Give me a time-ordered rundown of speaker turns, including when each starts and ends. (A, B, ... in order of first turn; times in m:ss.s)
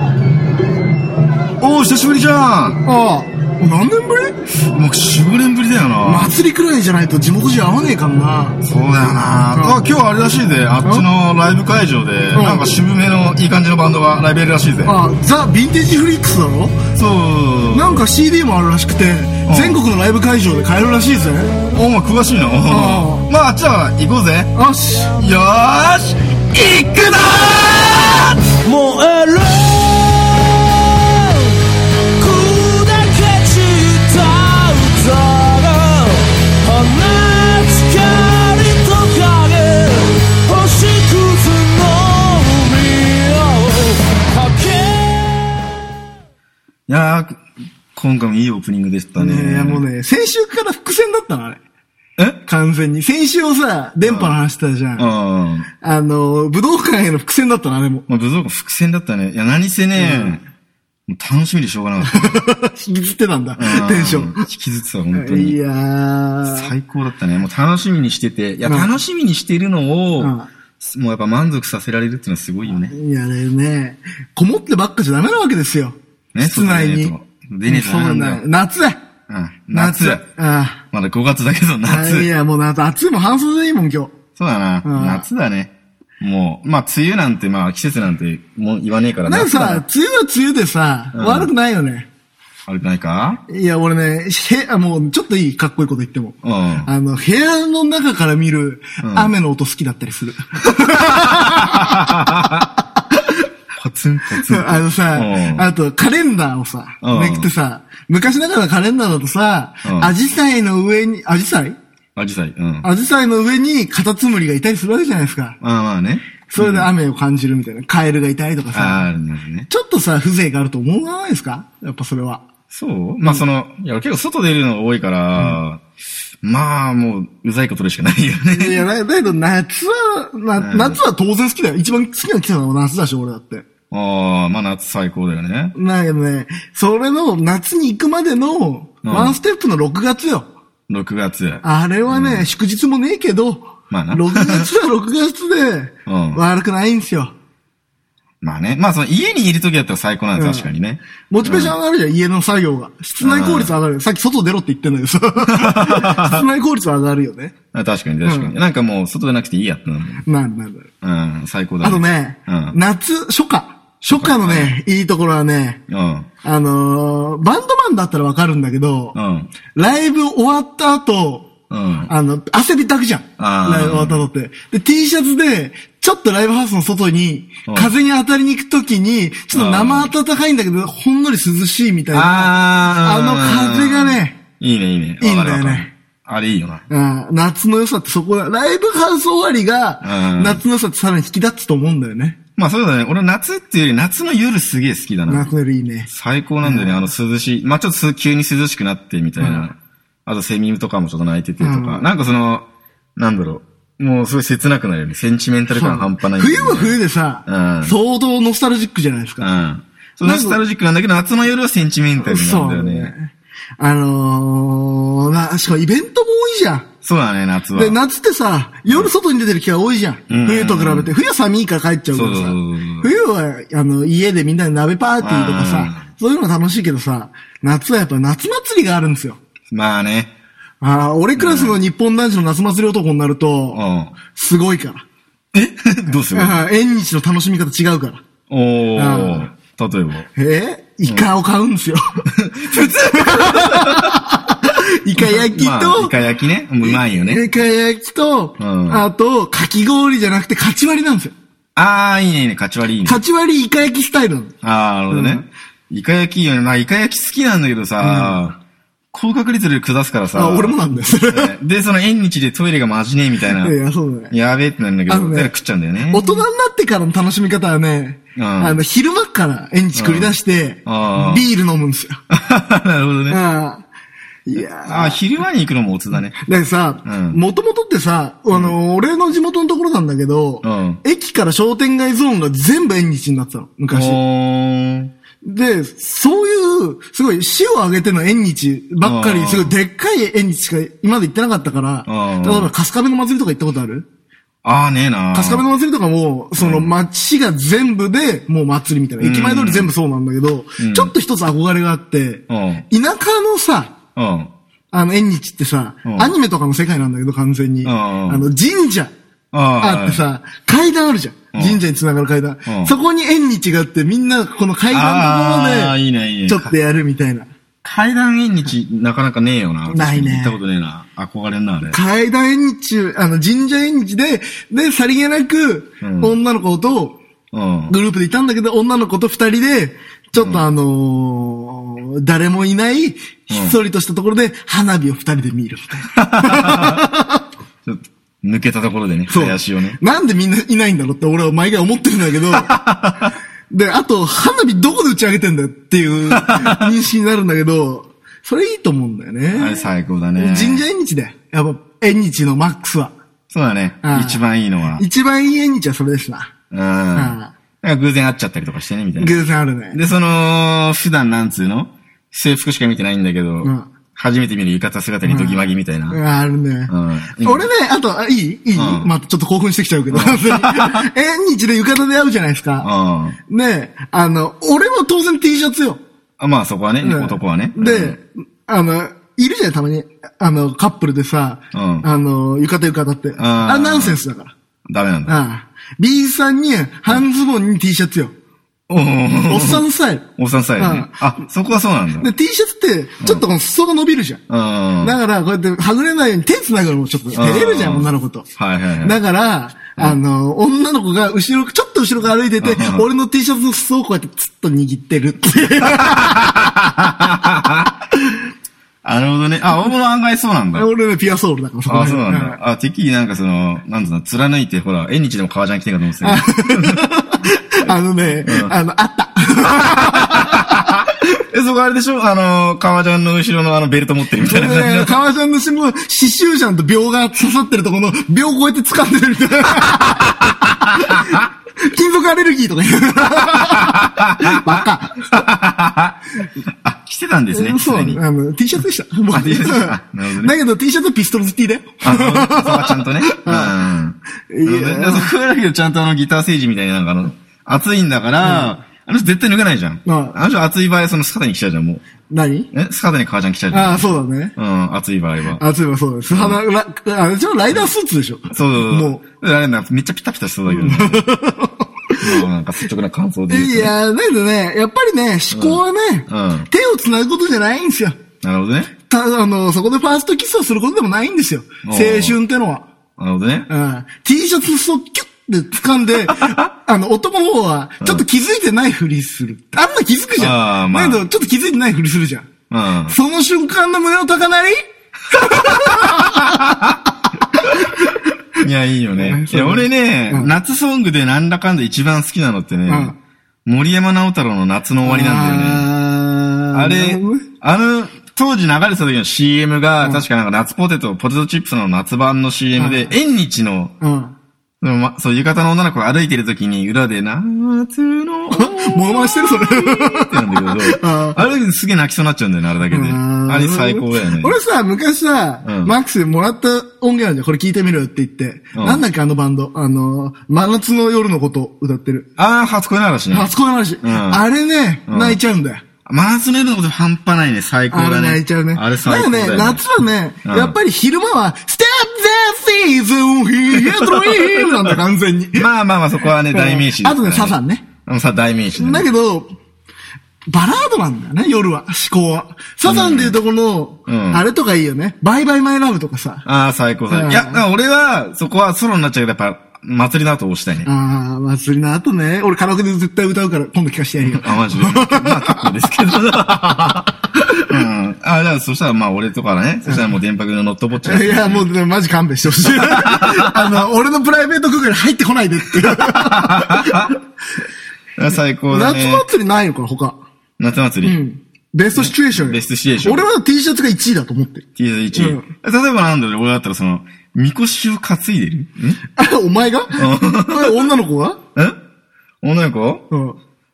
0:01.6-0:02.8 A
0:02.8-0:04.4 B
0:04.7-0:06.3 A
0:06.0-0:08.6 B
0:08.6-0:15.0 A
0:09.5-0:09.8 B
0:10.8-0:11.1 B
0:12.3-0:12.7 B
0:14.8-0:16.8 B
0:17.0-0:18.0 A
0:17.7-0:21.6 B
0:19.5-0:19.8 A
0:21.7-0:24.5 A
0:22.7-0:23.3 B
0:24.6-0:25.2 B
0:25.1-0:28.5 A
0:28.6-0:31.6 C
0:32.2-0:45.6 C
0:46.9-0:47.4 A
0:47.9-0:49.8 A
0:49.2-0:51.6 B
0:52.4-0:55.1 B
0:54.0-0:54.4 A
0:55.0-0:55.7 A
0:55.8-0:58.1 B
0:58.1-1:00.4 A
1:00.0-1:00.4 B
1:01.1-1:02.5 A
1:02.1-1:04.5 B
1:03.6-1:05.6 A
1:05.1-1:06.7 B
1:06.4-1:12.9 A
1:08.6-1:08.9 B
1:10.2-1:10.5 B
1:12.9-1:17.1 B
1:16.3-1:18.4 A
1:17.7-1:19.0 B
1:19.3-1:20.2 A
1:19.7-1:20.8 B
1:20.9-1:22.3 A
1:21.9-1:24.1 B
1:24.4-1:29.8 A
1:24.8-1:25.2 B
1:29.3-1:32.1 B
1:31.1-1:31.5 A
1:32.7-1:33.4 A
1:33.5-1:43.3 B
1:36.4-1:36.9 A
1:39.0-1:39.3 A
1:41.4-1:42.7 A
1:43.8-1:45.7 A
1:44.4-1:51.8 B
1:47.0-1:47.5 A
1:49.8-1:50.1 A
1:52.2-1:52.9 A
1:52.8-1:55.6 B
1:55.6-1:56.9 A
1:56.5-1:59.1 B
1:58.7-1:59.7 A
1:59.7-2:02.5 B
2:02.7-2:05.8 A
2:06.4-2:08.9 A
2:08.5-2:13.7 B
2:10.6-2:11.0 A
2:13.9-2:15.7 A
2:15.8-2:20.5 B
2:19.0-2:19.4 A
2:20.9-2:22.5 A
2:21.6-2:27.3 B
2:23.9-2:24.7 A
2:26.1-2:26.4 A
2:28.4-2:31.8 A
2:30.4-2:30.7 B
2:31.3-2:37.5 B
2:33.2-2:33.7 A
2:35.5-2:36.4 A
2:37.7-2:40.2 A
2:38.2-2:38.5 B
2:40.2-2:40.9 B
2:41.0-2:42.8 A
2:41.8-2:45.8 B
2:44.0-2:44.8 A
2:45.9-2:46.3 A
2:46.4-2:49.2 B
2:49.2-2:49.5 A
2:49.7-2:51.5 B
2:51.7-2:52.1 A
2:52.1-3:04.4 B
2:53.4-2:54.2 A
2:57.7-2:57.9 A
2:59.5-3:00.1 A
3:02.1-3:06.8 A
3:05.2-3:05.9 B
3:06.9-3:12.4 B
3:10.0-3:10.6 A
3:12.6-3:15.5 A
3:15.3-3:16.1 B
3:16.1-3:27.9 A
3:16.6-3:17.1 B
3:19.4-3:19.7 B
3:21.6-3:22.1 B
3:25.7-3:29.5 B
3:29.4-3:33.1 A
3:30.2-3:30.6 B
3:32.2-3:36.9 B
3:37.0-3:38.0 A
3:37.7-3:49.4 B
3:40.3-3:41.1 A
3:42.1-3:43.1 A
3:45.2-3:46.0 A
3:49.7-3:50.3 A
3:50.8-3:55.0 B
3:51.4-3:51.8 A
3:53.7-3:54.1 A
3:55.5-3:56.6 A
3:56.3-3:58.2 B
3:58.5-4:00.3 A
3:59.0-3:59.5 B
4:00.4-4:06.1 B
4:02.4-4:04.2 A
4:05.2-4:07.4 A
4:06.8-4:11.4 B
4:08.6-4:09.0 A
4:11.8-4:13.2 A
4:13.0-4:14.5 B
4:14.6-4:18.6 A
4:15.1-4:15.5 B
4:18.0-4:18.4 B
4:19.1-4:23.8 A
4:20.3-4:21.5 B
4:23.6-4:24.3 B
4:24.3-4:26.4 A
4:25.1-4:25.5 B
4:26.1-4:32.2 B
4:28.4-4:28.8 A
4:30.0-4:30.3 A
4:30.9-4:31.5 A
4:32.3-4:33.4 A
4:33.3-4:33.8 B
4:34.5-4:35.2 B
4:34.8-4:36.4 A
4:36.4-4:44.2 B
4:37.0-4:37.4 A
4:40.6-4:41.0 A
4:43.9-4:45.1 A
4:45.4-4:54.1 B
4:49.0-4:49.7 A
4:52.1-4:52.7 A
4:54.6-4:55.6 A
4:55.3-5:03.9 B
4:56.6-4:56.9 A
4:59.2-4:59.9 A
5:00.8-5:01.1 A
5:02.5-5:02.8 A
5:04.2-5:04.5 A
5:04.9-5:09.1 B
5:06.0-5:06.3 A
5:07.8-5:08.4 A
5:09.5-5:10.2 A
5:09.8-5:16.0 B
5:11.5-5:11.8 A
5:12.7-5:13.0 A
5:14.9-5:16.7 A
5:16.5-5:17.5 B
5:17.8-5:22.0 A
5:19.9-5:20.6 B
5:21.9-5:27.2 B
5:26.0-5:26.4 A
5:27.5-5:27.9 A
5:27.9-5:37.4 B
5:30.4-5:30.6 A
5:33.5-5:33.8 A
5:36.2-5:37.0 A
5:37.8-5:40.0 A
5:39.3-5:42.7 B
5:42.5-5:43.3 A
5:43.7-5:53.1 B
5:46.3-5:46.9 A
5:49.5-5:50.8 A
5:53.5-5:55.0 A
5:54.0-5:54.4 B
5:55.0-5:56.5 B
5:56.7-6:06.2 A
5:57.1-5:57.5 B
5:59.2-6:00.0 B
6:03.6-6:03.9 B
6:05.2-6:06.9 B
6:06.9-6:07.7 A
6:07.4-6:12.9 B
6:08.8-6:09.1 A
6:10.1-6:11.1 A
6:12.8-6:13.4 A
6:13.5-6:16.0 B
6:16.4-6:18.2 A
6:17.0-6:24.5 B
6:21.7-6:22.1 A
6:23.4-6:24.2 A
6:24.9-6:25.4 A
6:25.3-6:28.3 B
6:28.9-6:29.8 A
6:29.5-6:30.2 B
6:30.4-6:32.3 A
6:30.8-6:31.2 B
6:32.2-6:34.4 B
6:34.5-6:35.2 A
6:35.0-6:38.5 B
6:37.3-6:39.2 A
6:39.0-6:46.6 B
6:42.6-6:43.1 A
6:45.8-6:47.9 A
6:49.0-6:50.9 A
6:50.7-6:52.6 B
6:51.9-6:57.0 A
6:56.2-7:01.0 B
6:58.4-6:58.7 A
7:00.0-7:05.1 A
7:04.4-7:15.4 B
7:11.0-7:11.4 A
7:13.4-7:18.2 A
7:17.5-7:23.8 B
7:19.3-7:20.5 A
7:22.0-7:32.0 A
7:24.5-7:25.3 B
7:28.4-7:28.7 B
7:30.1-7:30.4 B
7:32.3-7:32.7 B
7:32.7-7:35.6 A
7:33.7-7:34.5 B
7:35.6-7:39.2 B
7:36.3-7:36.6 A
7:38.5-7:41.3 A
7:40.7-7:42.5 B
7:42.2-7:43.9 A
7:43.5-7:48.2 B
7:45.5-7:46.7 A
7:48.4-7:48.9 A
7:49.1-7:52.9 B
7:51.8-7:52.4 A
7:53.2-7:53.7 A
7:53.7-8:02.5 B
8:00.4-8:01.2 A
8:02.7-8:03.2 A
8:03.1-8:06.9 B
8:05.5-8:06.9 A
8:07.5-8:08.2 B
8:08.6-8:13.1 A
8:09.2-8:10.5 B
8:12.9-8:13.2 B
8:13.6-8:15.9 A
8:15.0-8:17.5 B
8:16.7-8:23.9 A
8:22.8-8:23.1 B
8:24.0-8:24.3 B
8:24.8-8:34.6 A
8:28.5-8:31.4 B
8:32.9-8:42.3 B
8:35.6-8:35.9 A
8:38.8-8:39.0 A
8:42.4-8:44.4 A
8:43.3-8:45.8 B
8:45.1-8:45.4 A
8:46.1-8:49.8 A
8:47.9-8:55.7 B
8:50.4-8:50.8 A
8:53.7-8:55.0 A
8:55.6-8:59.1 A
8:56.5-8:57.8 B
8:58.8-8:59.5 B
9:00.5-9:06.5 B
9:02.8-9:03.4 A
9:04.1-9:04.4 A
9:06.4-9:10.9 A
9:07.1-9:07.6 B
9:10.8-9:15.7 B
9:14.2-9:17.1 A
9:17.7-9:21.7 A
9:19.9-9:20.1 B
9:21.0-9:27.2 B
9:22.6-9:23.8 A
9:25.8-9:27.1 A
9:28.2-9:29.2 A
9:28.7-9:30.2 B
9:30.6-9:31.2 A
9:31.0-9:35.5 B
9:32.0-9:33.3 A
9:34.8-9:39.0 A
9:39.2-9:41.4 B
9:40.0-9:40.9 A
9:42.4-9:43.0 A
9:43.1-9:43.4 B